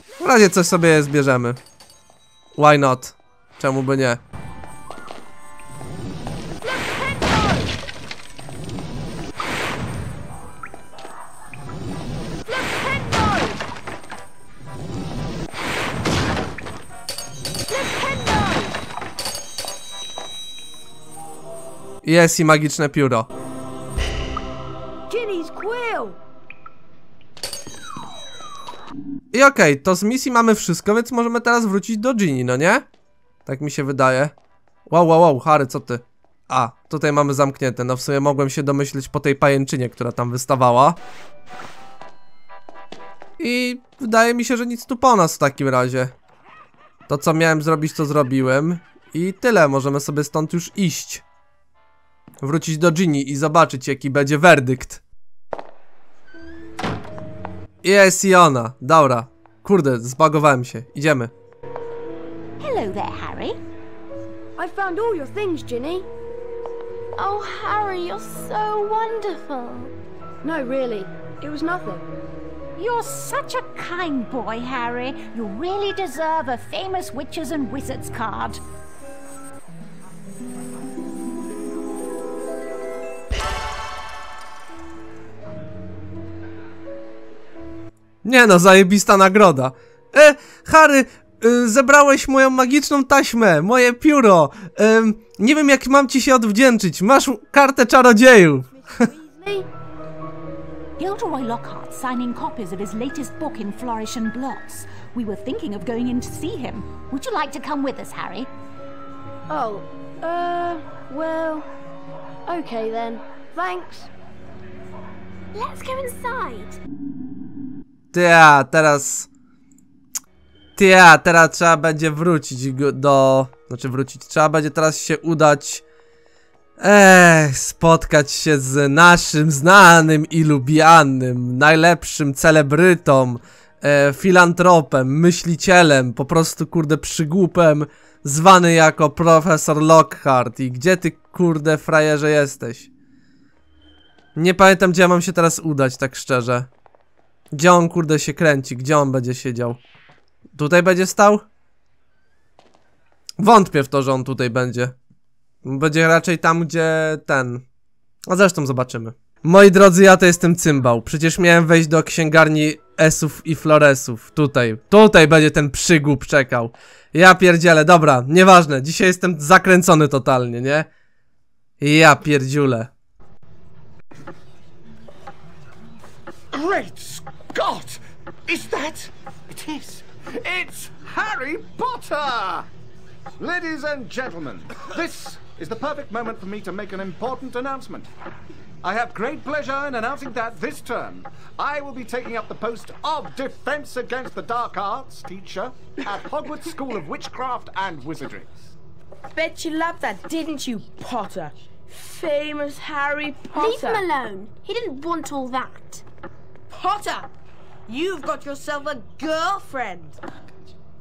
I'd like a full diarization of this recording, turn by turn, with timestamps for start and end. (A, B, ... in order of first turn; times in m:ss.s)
0:00.2-0:01.6 A
0:02.6-0:04.2 A
0:06.6-0:07.7 B
0:12.4-0:13.6 B
0:17.7-0:18.7 B
0:22.0-0:23.3 A
0:25.1-0:26.2 B
0:29.3-0:32.8 A
0:33.4-0:34.3 A
0:34.9-0:41.0 A
0:43.4-0:46.1 A
0:47.1-0:51.2 A
0:52.4-0:55.0 A
0:57.8-1:01.3 A
1:02.6-1:03.6 C
1:04.6-1:06.1 B
1:07.2-1:09.9 D
1:10.4-1:12.1 B
1:12.8-1:18.6 C
1:28.2-1:39.1 A
1:39.0-1:39.7 B
1:41.0-1:48.5 C
1:49.5-1:51.7 B
1:52.5-1:54.1 B
1:55.5-1:56.8 D
1:58.1-1:59.3 A
2:00.8-2:05.8 A
2:06.8-2:22.9 A
2:24.3-2:26.7 A
2:27.5-2:29.8 A
2:30.5-2:31.4 A
2:33.4-2:34.9 A
2:35.6-2:37.6 A
2:38.3-2:50.9 A
2:51.8-2:52.9 A
2:56.5-3:02.7 E
3:03.4-3:08.1 E
3:08.8-3:18.5 E
3:19.4-3:24.0 F
3:23.5-3:26.0 D
3:26.7-3:27.2 F
3:27.9-3:30.2 F